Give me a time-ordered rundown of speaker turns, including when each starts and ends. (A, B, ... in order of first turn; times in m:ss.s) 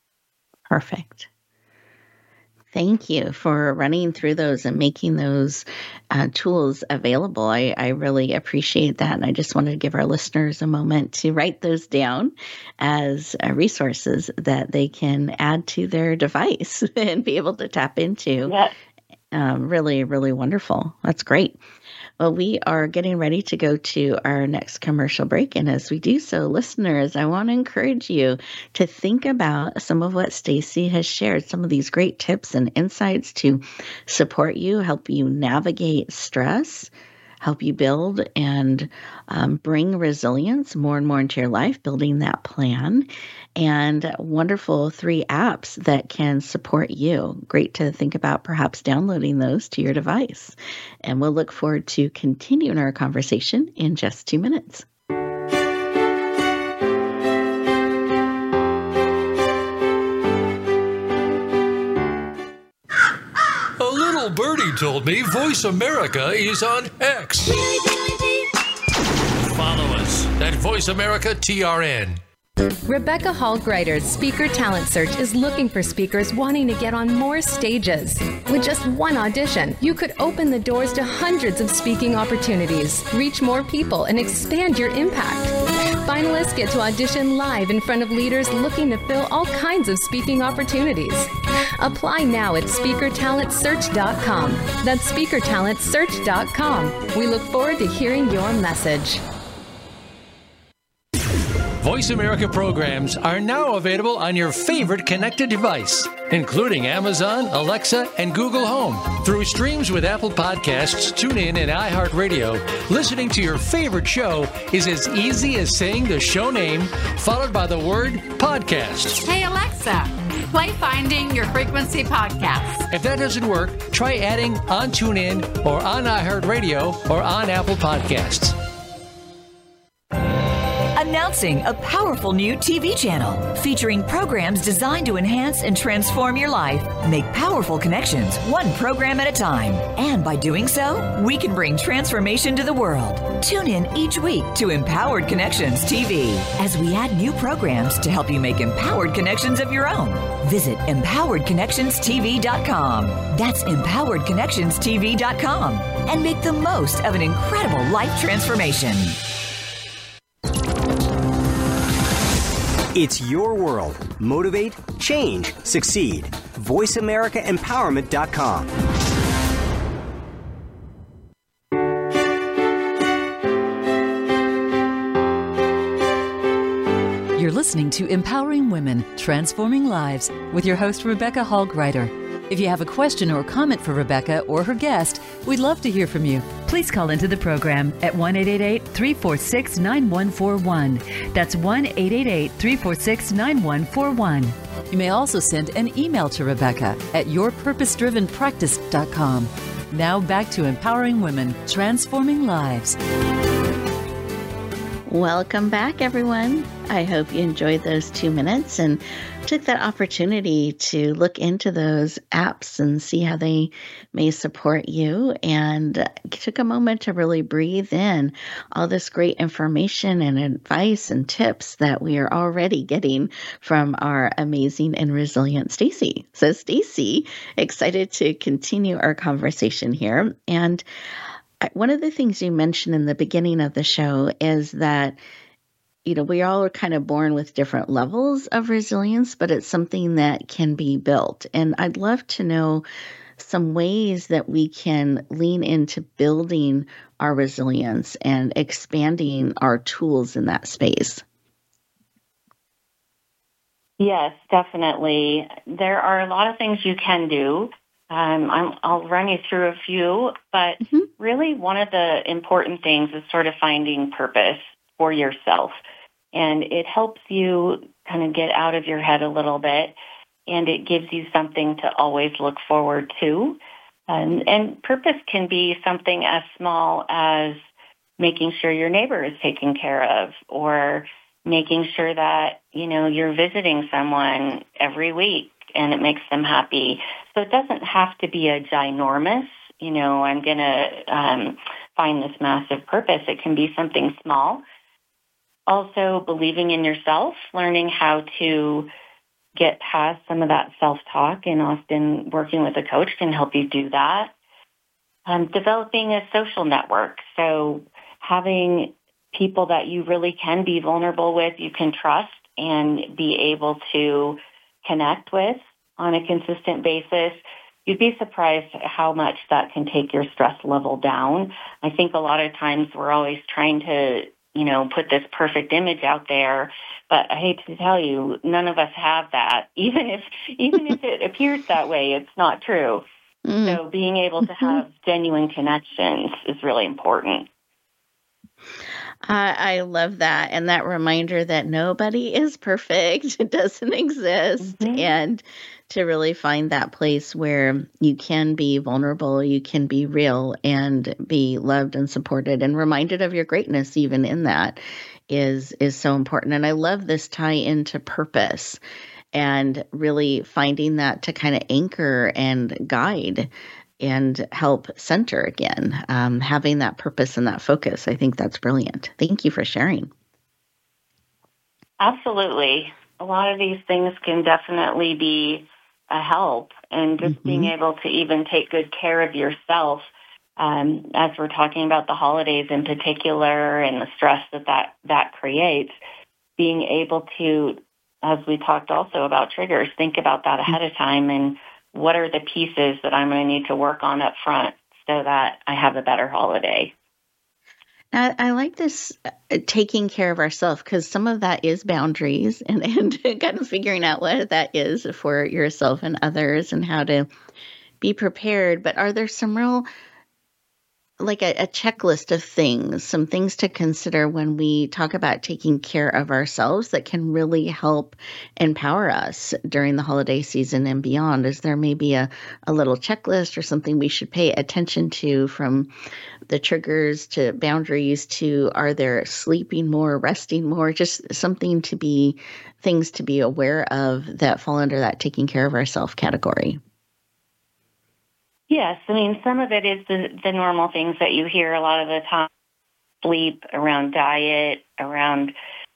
0:00.7-0:01.3 A
0:02.7-0:18.5 A
0:18.4-0:18.7 B
0:19.3-0:21.6 A
0:22.2-0:54.8 A
1:03.8-1:07.6 C
1:09.4-1:12.2 C
1:12.8-1:25.5 D
1:26.0-1:39.2 D
1:41.8-1:59.2 C
1:59.2-2:02.9 E
2:02.9-2:08.6 C
2:10.9-2:39.2 F
2:42.9-2:48.7 G
2:57.3-3:23.0 H
3:25.1-3:50.8 A
3:51.6-3:55.2 A
3:56.0-4:02.8 A
4:03.4-4:11.2 A
4:14.0-4:25.8 B
4:20.8-4:21.1 A
4:26.3-4:37.6 B
4:38.2-4:54.6 B
4:55.7-4:58.9 B
4:59.5-5:04.3 B
5:05.2-5:33.0 B
5:33.4-5:33.8 A
5:33.6-5:37.5 B
5:34.4-5:34.8 A
5:39.2-5:58.8 A
5:44.6-5:45.1 B
5:59.3-6:10.1 A
6:12.0-6:25.9 B
6:17.2-6:17.7 A
6:26.6-6:36.9 B
6:38.1-6:47.3 A
6:48.0-6:49.9 A
6:51.2-7:05.9 A
7:06.5-7:16.8 A
7:18.7-7:22.5 B
7:23.2-7:25.5 B